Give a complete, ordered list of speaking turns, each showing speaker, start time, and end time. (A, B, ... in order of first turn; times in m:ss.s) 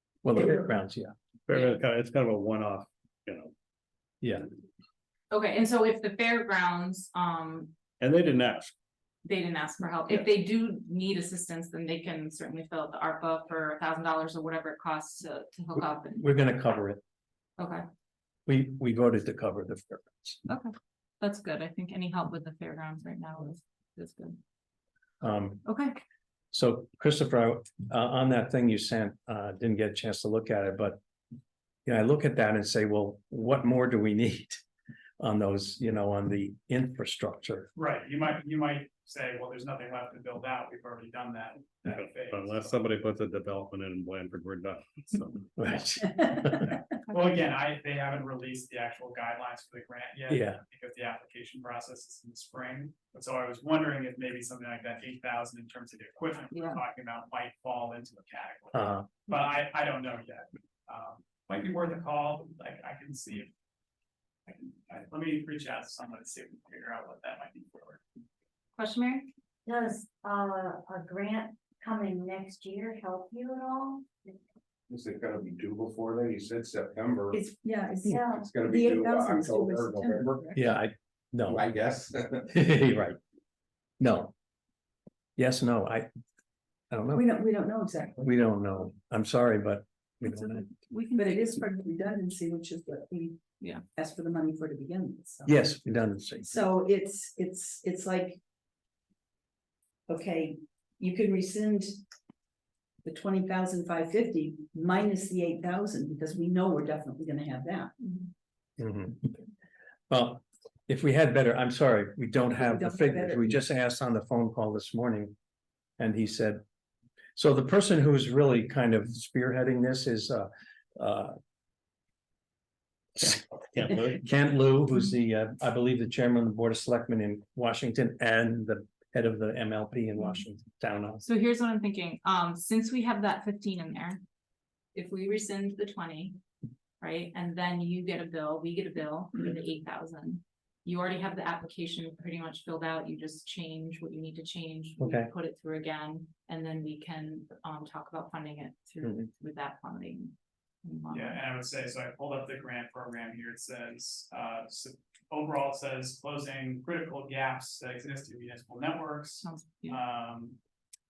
0:00.2-0:01.1 A
0:01.5-0:03.5 B
0:01.5-0:01.8 C
0:04.2-0:04.5 A
0:05.3-0:07.8 C
0:08.0-0:08.7 B
0:09.2-0:16.3 C
0:16.2-0:17.0 A
0:17.6-0:17.8 C
0:18.5-0:20.4 A
0:20.5-0:24.4 C
0:25.2-0:25.6 A
0:25.6-0:26.0 C
0:26.5-0:31.0 A
0:31.9-0:34.6 A
0:35.2-0:37.7 A
0:37.8-0:42.7 D
0:41.9-0:45.5 B
0:45.6-0:46.7 A
0:46.6-1:03.5 D
0:50.3-0:50.6 A
0:56.5-0:56.8 C
0:58.7-0:59.1 A
1:04.5-1:08.0 D
1:08.8-1:09.3 C
1:09.7-1:14.4 E
1:14.9-1:17.4 F
1:17.3-1:20.6 G
1:18.1-1:18.5 E
1:18.3-1:20.5 F
1:20.6-1:21.6 A
1:21.5-1:22.5 F
1:22.5-1:23.2 A
1:24.0-1:24.3 A
1:25.4-1:26.1 A
1:26.9-1:27.4 A
1:27.2-1:28.3 G
1:28.2-1:30.6 A
1:30.2-1:31.6 C
1:31.2-1:33.4 G
1:33.9-1:35.7 G
1:35.5-1:36.7 A
1:36.4-1:38.4 G
1:40.1-1:42.0 G
1:43.0-1:47.9 G
1:48.8-1:49.4 A
1:50.1-1:55.4 A
1:52.5-1:53.6 G
1:56.0-1:56.6 A
1:57.4-2:01.4 A
2:03.2-2:11.2 A
2:11.2-2:14.2 C
2:14.9-2:16.4 C
2:17.0-2:31.4 C
2:25.0-2:25.3 A
2:31.1-2:40.6 D
2:39.4-2:40.0 C